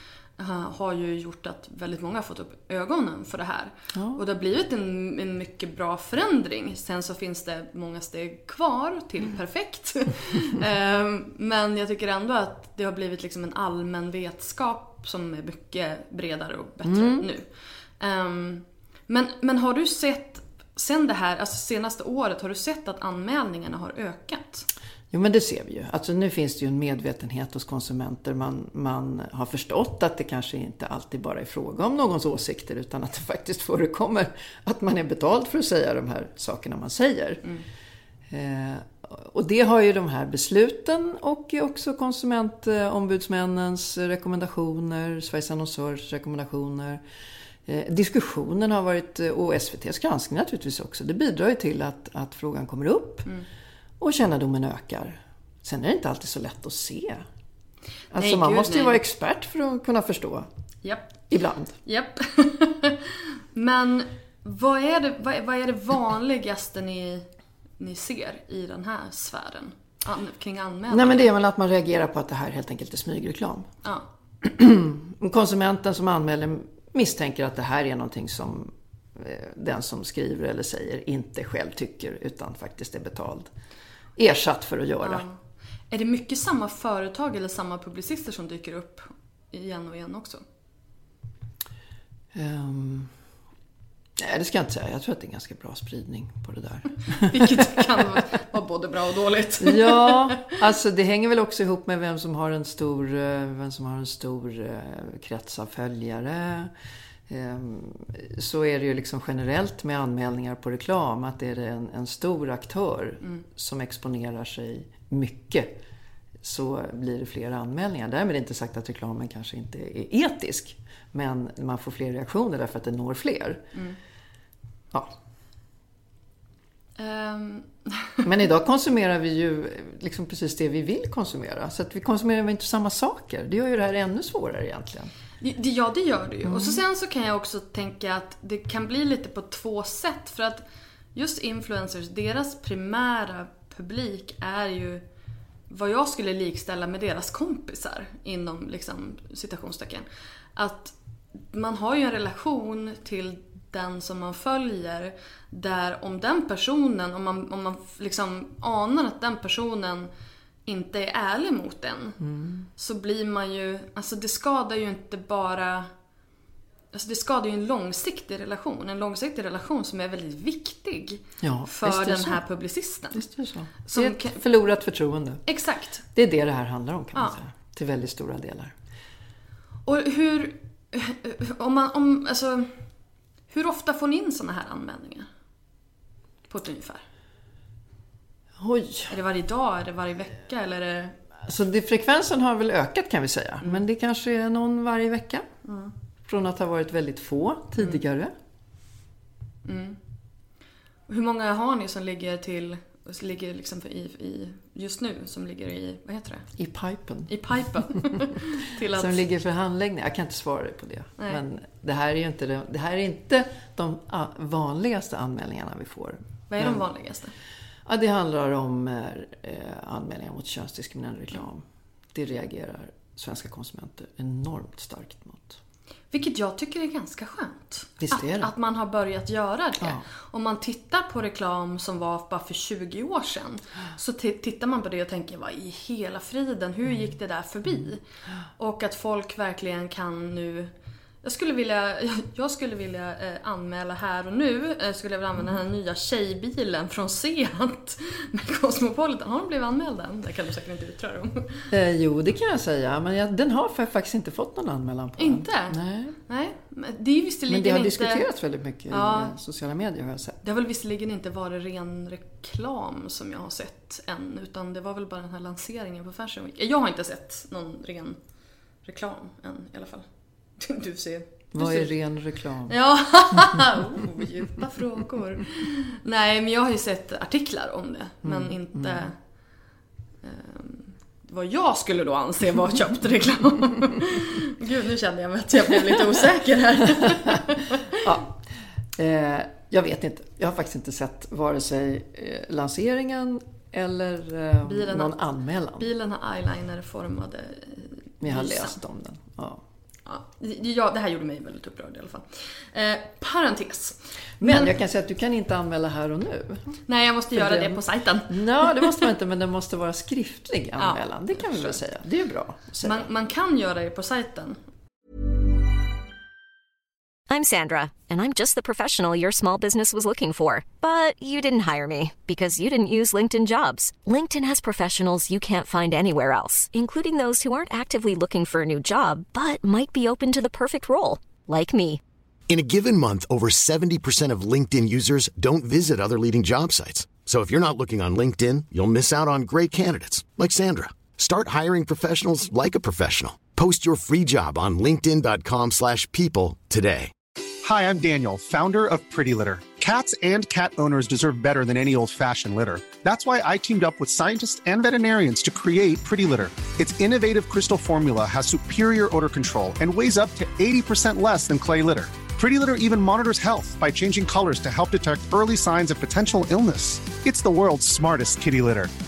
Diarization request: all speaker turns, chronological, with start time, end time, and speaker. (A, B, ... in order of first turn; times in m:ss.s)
0:00.4-0:24.7 A
0:03.9-0:04.2 B
0:16.8-0:17.3 B
0:25.1-0:37.4 B
0:38.3-0:47.0 B
0:47.7-0:53.3 B
0:54.0-0:57.3 B
0:58.1-1:00.5 B
0:58.1-0:59.0 A
1:00.8-1:01.1 A
1:01.3-1:01.8 B
1:01.8-1:07.3 A
1:07.8-1:11.3 A
1:10.9-1:13.7 B
1:14.4-1:23.5 B
1:24.2-1:25.2 B
1:25.0-1:25.4 A
1:25.9-1:30.4 A
1:32.3-1:33.1 B
1:34.2-1:38.0 B
1:37.2-1:40.5 A
1:39.6-1:46.7 B
1:47.3-1:55.8 B
1:56.4-2:03.7 B
2:07.0-2:08.2 A
2:08.2-2:15.1 B
2:15.4-2:25.0 A
2:16.4-2:16.8 B
2:25.7-2:30.9 A
2:31.5-2:40.1 A
2:40.7-2:42.2 A
2:42.2-2:42.7 B
2:42.8-2:45.9 A
2:46.9-2:53.3 A
2:51.4-2:52.4 B
2:53.1-2:55.4 B
2:53.8-2:54.4 A
2:55.5-2:56.0 A
2:56.1-2:58.7 B
2:59.9-3:02.8 A
3:03.5-3:05.3 A
3:06.5-3:07.0 A
3:08.6-3:09.1 B
3:09.1-3:11.2 A
3:11.4-3:15.5 B
3:15.6-3:15.9 A
3:16.3-3:18.3 B
3:19.6-3:20.0 A
3:21.1-3:26.5 A
3:26.6-3:27.4 B
3:27.3-3:29.2 A
3:28.0-3:28.2 B
3:28.9-3:36.8 B
3:36.5-3:37.3 A
3:37.9-3:45.6 B
3:46.1-3:58.0 A
3:48.0-3:48.5 B
3:49.8-3:50.1 B
3:58.6-4:00.7 A
4:01.2-4:11.7 A
4:11.7-4:16.2 B
4:15.2-4:18.2 A
4:17.5-4:20.4 B
4:18.9-4:19.4 A
4:20.4-4:28.2 A
4:28.8-4:30.1 A
4:30.6-4:31.9 A
4:31.5-4:32.8 B
4:32.7-4:39.2 A
4:33.3-4:33.6 B
4:38.2-4:39.1 B
4:40.2-4:48.0 A
4:48.0-4:48.4 B
4:49.0-4:55.9 B
4:54.6-4:55.1 A
4:55.8-4:58.8 A
4:58.2-4:59.6 B
5:00.1-5:04.7 A
5:04.4-5:06.8 B
5:06.9-5:09.0 A
5:07.3-5:13.1 B
5:10.8-5:11.8 A
5:12.8-5:14.6 A
5:17.3-5:32.0 C
5:32.5-5:47.1 D
5:47.6-6:08.9 E